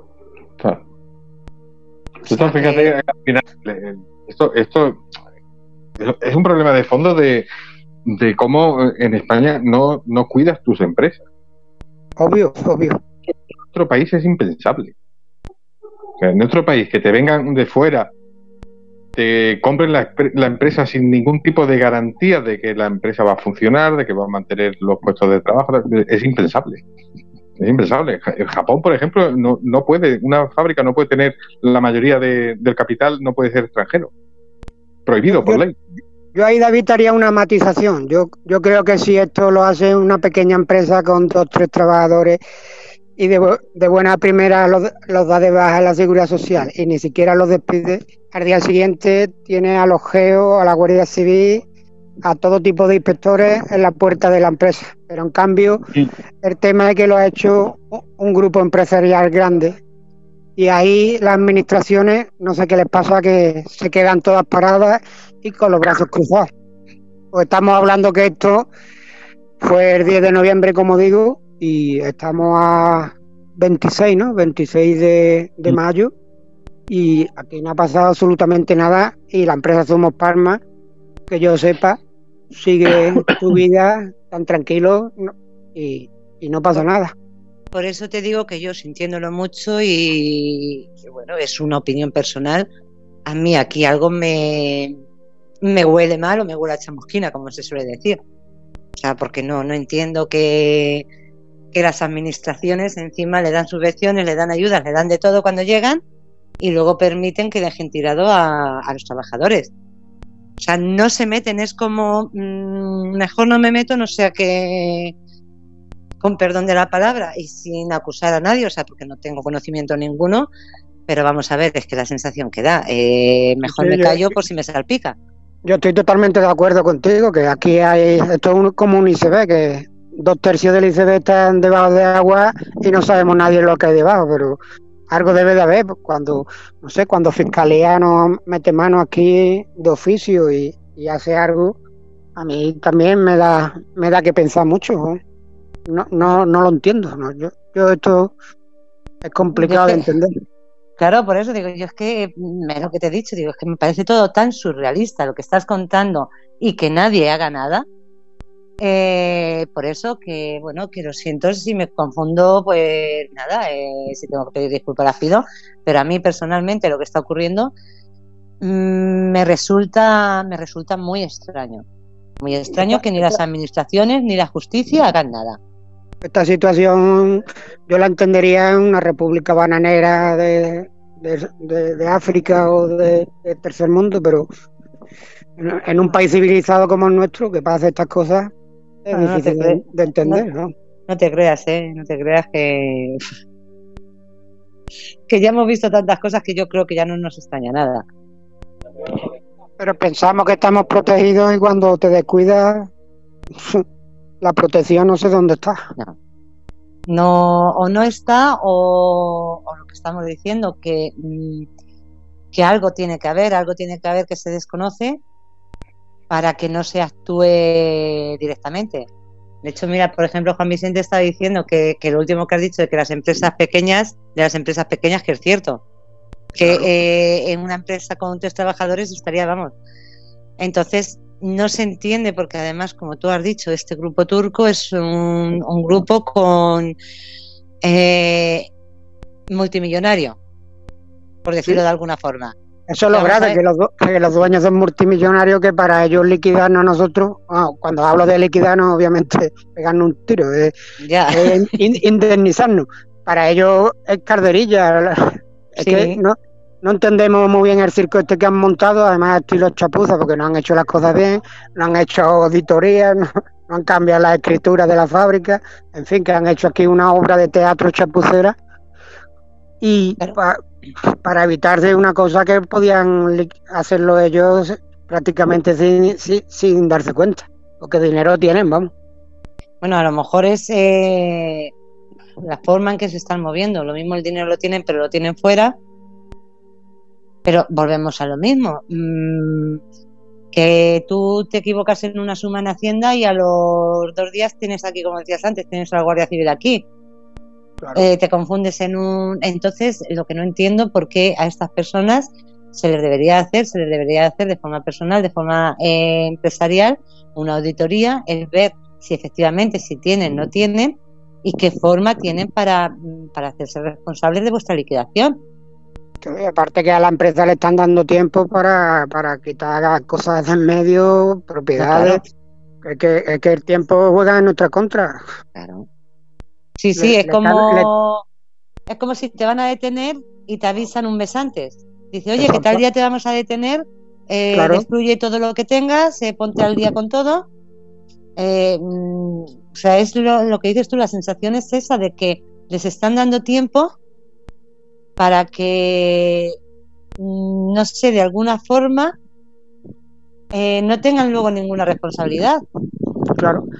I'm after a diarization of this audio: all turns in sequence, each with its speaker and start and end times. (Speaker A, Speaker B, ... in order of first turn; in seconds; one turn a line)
Speaker A: 2.3-5.0
Speaker B: 2.3-2.9
Speaker A: 6.0-7.5
Speaker A: 8.1-11.2
Speaker B: 12.2-13.0
Speaker A: 13.7-14.9
Speaker A: 16.2-18.1
Speaker A: 19.1-26.8
Speaker A: 27.6-34.1
Speaker A: 35.1-35.7
Speaker B: 35.3-35.6
Speaker B: 36.3-42.4
Speaker B: 43.2-51.6
Speaker B: 52.2-55.8
Speaker B: 56.4-59.8
Speaker B: 60.6-66.5
Speaker B: 67.3-68.7
Speaker B: 69.6-76.1
Speaker B: 76.9-80.6
Speaker B: 81.3-82.0
Speaker B: 82.5-87.1
Speaker C: 87.7-92.7
Speaker C: 93.2-95.0
Speaker C: 95.6-98.2
Speaker C: 99.0-101.0
Speaker C: 101.7-106.0
Speaker C: 106.6-109.7
Speaker C: 110.6-115.1
Speaker C: 116.2-120.5
Speaker C: 121.1-125.2
Speaker B: 123.7-124.3
Speaker B: 125.7-134.6
Speaker B: 135.1-141.7
Speaker B: 142.4-145.2
Speaker B: 145.9-148.3
Speaker B: 149.2-150.3
Speaker C: 149.6-150.1
Speaker C: 151.0-157.8
Speaker C: 158.8-167.7
Speaker C: 168.6-171.8
Speaker C: 172.4-175.6
Speaker B: 176.2-184.5
Speaker B: 185.6-188.5
Speaker B: 189.0-190.7
Speaker C: 189.1-190.4
Speaker C: 191.1-193.2
Speaker C: 195.3-198.0
Speaker B: 199.8-202.9
Speaker B: 203.5-203.8
Speaker B: 204.4-205.8
Speaker C: 207.1-211.7
Speaker C: 212.5-215.2
Speaker C: 216.3-219.1
Speaker C: 219.6-225.8
Speaker B: 226.6-226.9
Speaker C: 226.6-229.7
Speaker C: 230.6-236.9
Speaker C: 237.8-238.7
Speaker C: 239.5-240.4
Speaker C: 241.4-242.5
Speaker B: 242.9-250.7
Speaker C: 243.1-243.6
Speaker C: 251.0-251.8
Speaker B: 251.3-268.5
Speaker C: 255.8-256.2
Speaker B: 269.8-278.9
Speaker C: 279.8-281.7
Speaker C: 282.4-285.8
Speaker C: 287.4-289.8
Speaker C: 290.5-296.8
Speaker C: 297.9-315.4
Speaker B: 316.2-322.2
Speaker C: 321.8-322.2
Speaker B: 322.8-325.2
Speaker C: 325.5-325.9
Speaker C: 326.8-328.2
Speaker B: 327.0-327.9
Speaker C: 328.9-337.4
Speaker B: 332.4-332.8
Speaker B: 334.5-334.9
Speaker C: 338.4-343.9
Speaker C: 345.2-346.6
Speaker C: 347.2-349.1
Speaker C: 350.5-352.6
Speaker B: 353.2-353.6